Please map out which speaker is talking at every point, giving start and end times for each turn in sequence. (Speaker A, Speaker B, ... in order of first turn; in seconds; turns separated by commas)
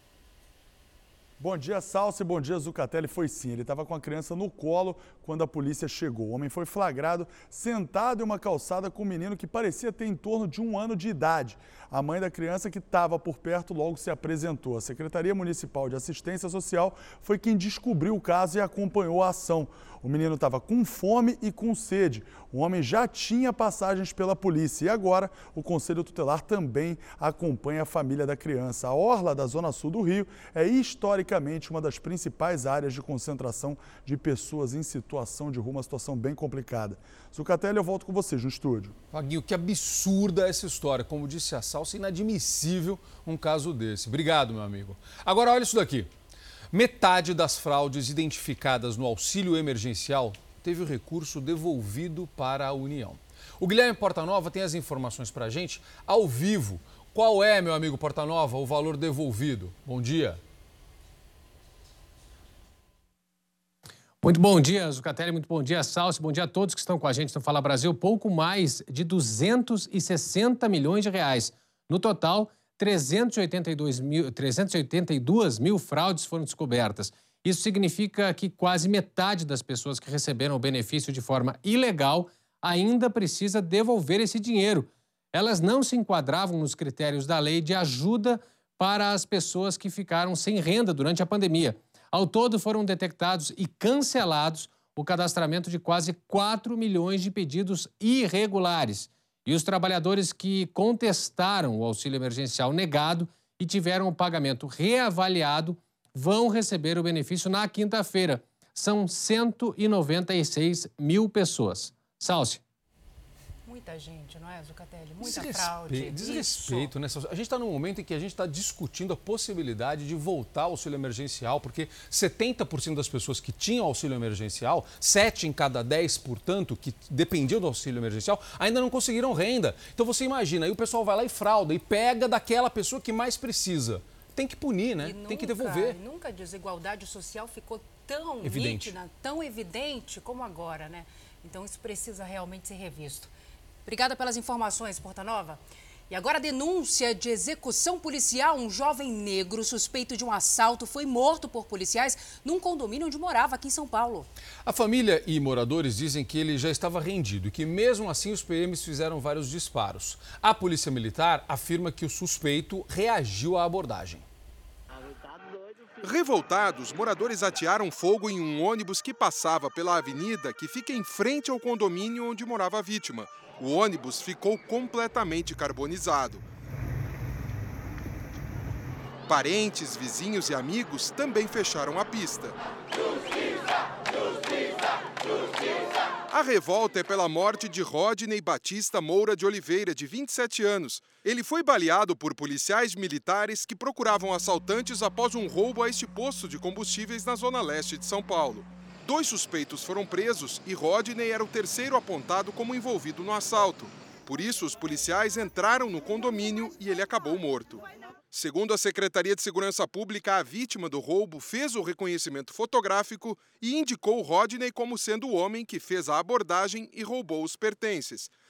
Speaker A: 1.4-38.9, Speaker B: 39.1-46.1, Speaker B: 46.7-60.4, Speaker C: 64.2-112.6, Speaker D: 113.7-116.9, Speaker B: 115.2-136.0, Speaker D: 135.0-143.3, Speaker B: 138.4-138.9, Speaker D: 143.8-154.3, Speaker B: 154.6-164.2, Speaker E: 166.0-176.4, Speaker E: 179.3-182.6, Speaker E: 186.3-218.3